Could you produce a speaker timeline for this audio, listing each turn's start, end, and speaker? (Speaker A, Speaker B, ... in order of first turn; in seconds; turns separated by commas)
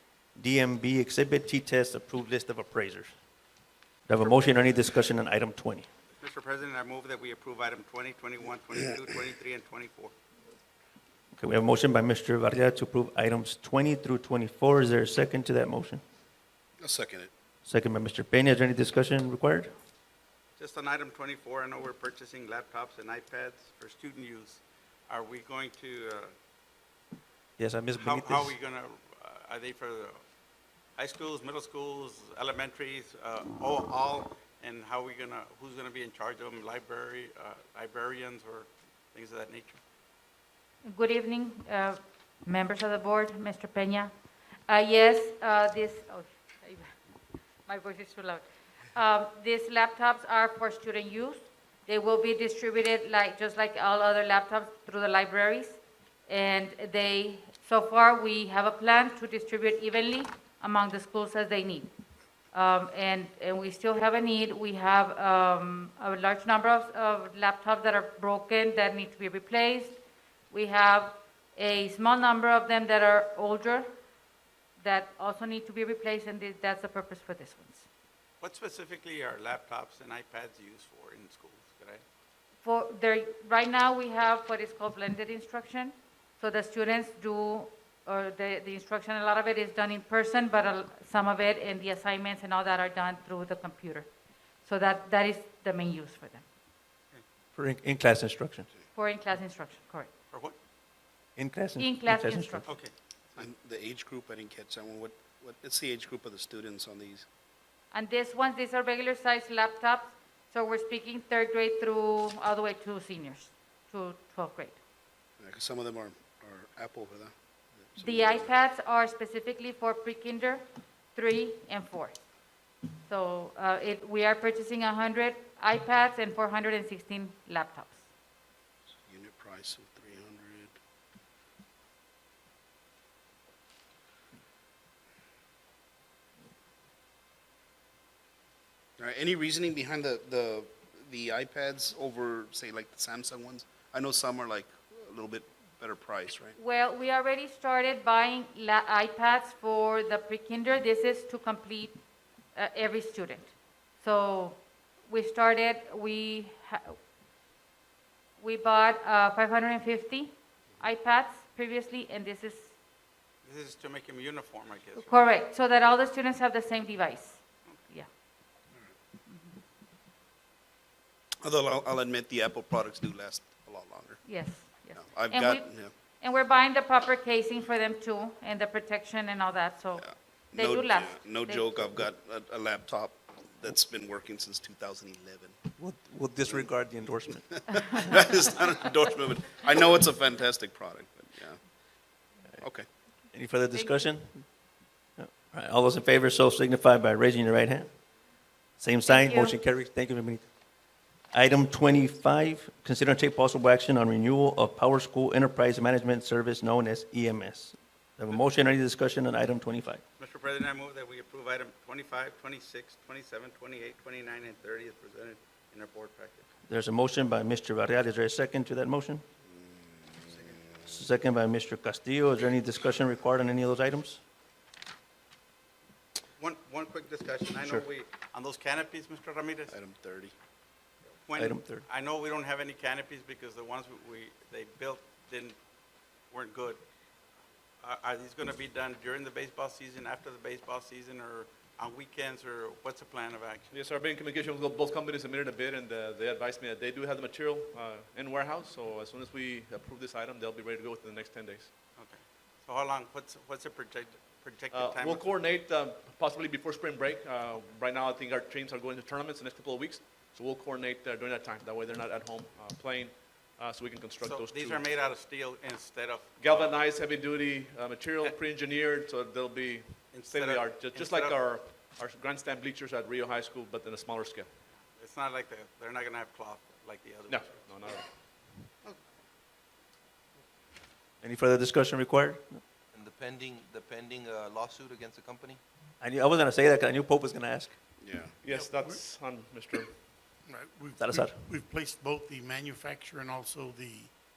Speaker A: 0.4-3.1, Speaker A: 4.1-5.8, Speaker B: 6.2-10.1, Speaker A: 11.4-16.0, Speaker C: 16.8-17.3, Speaker A: 17.6-19.7, Speaker B: 20.6-26.3, Speaker A: 27.6-28.5, Speaker B: 27.9-30.2, Speaker B: 31.0-39.8, Speaker D: 40.8-44.1, Speaker D: 44.7-47.0, Speaker D: 47.6-61.9, Speaker D: 62.5-70.0, Speaker D: 70.5-73.9, Speaker D: 74.8-77.9, Speaker B: 78.4-82.0, Speaker D: 82.6-94.1, Speaker D: 94.6-96.4, Speaker A: 97.5-98.7, Speaker D: 98.9-100.1, Speaker A: 101.4-102.7, Speaker D: 101.8-102.7, Speaker B: 102.7-103.5, Speaker C: 103.4-107.2, Speaker D: 107.9-114.8, Speaker C: 115.4-117.3, Speaker C: 117.9-118.5, Speaker D: 118.0-122.1, Speaker D: 123.0-128.0, Speaker C: 129.1-130.7, Speaker C: 139.0-146.5, Speaker D: 146.6-152.0, Speaker D: 152.5-153.5, Speaker D: 154.0-157.0, Speaker D: 158.4-162.7, Speaker B: 163.4-165.1, Speaker D: 165.0-168.1, Speaker D: 169.3-169.6, Speaker C: 171.4-174.2, Speaker D: 174.2-175.7, Speaker C: 175.0-175.9, Speaker D: 176.2-181.7, Speaker C: 180.0-185.6, Speaker A: 185.8-188.1, Speaker D: 187.8-188.2, Speaker C: 188.0-191.6, Speaker C: 192.6-192.9, Speaker A: 193.3-194.4, Speaker D: 193.7-194.0, Speaker A: 195.2-197.9, Speaker A: 198.8-200.4, Speaker D: 199.1-199.5, Speaker A: 201.3-210.0, Speaker B: 210.2-216.5, Speaker A: 216.7-219.2, Speaker C: 219.6-220.5, Speaker A: 220.9-224.2, Speaker B: 226.4-229.8, Speaker C: 229.7-230.3, Speaker B: 231.2-235.6, Speaker A: 231.4-231.8, Speaker B: 236.3-236.8, Speaker B: 237.8-243.7, Speaker E: 243.7-251.7, Speaker B: 251.9-255.3, Speaker E: 254.7-264.8, Speaker B: 264.2-266.3, Speaker E: 266.4-274.5, Speaker B: 270.1-271.6, Speaker B: 274.9-277.6, Speaker E: 277.3-278.1, Speaker A: 281.2-282.6, Speaker F: 282.9-285.6, Speaker A: 286.0-287.7, Speaker C: 288.0-288.3, Speaker E: 288.4-290.0, Speaker G: 288.5-289.0, Speaker G: 290.4-294.1, Speaker A: 291.0-291.4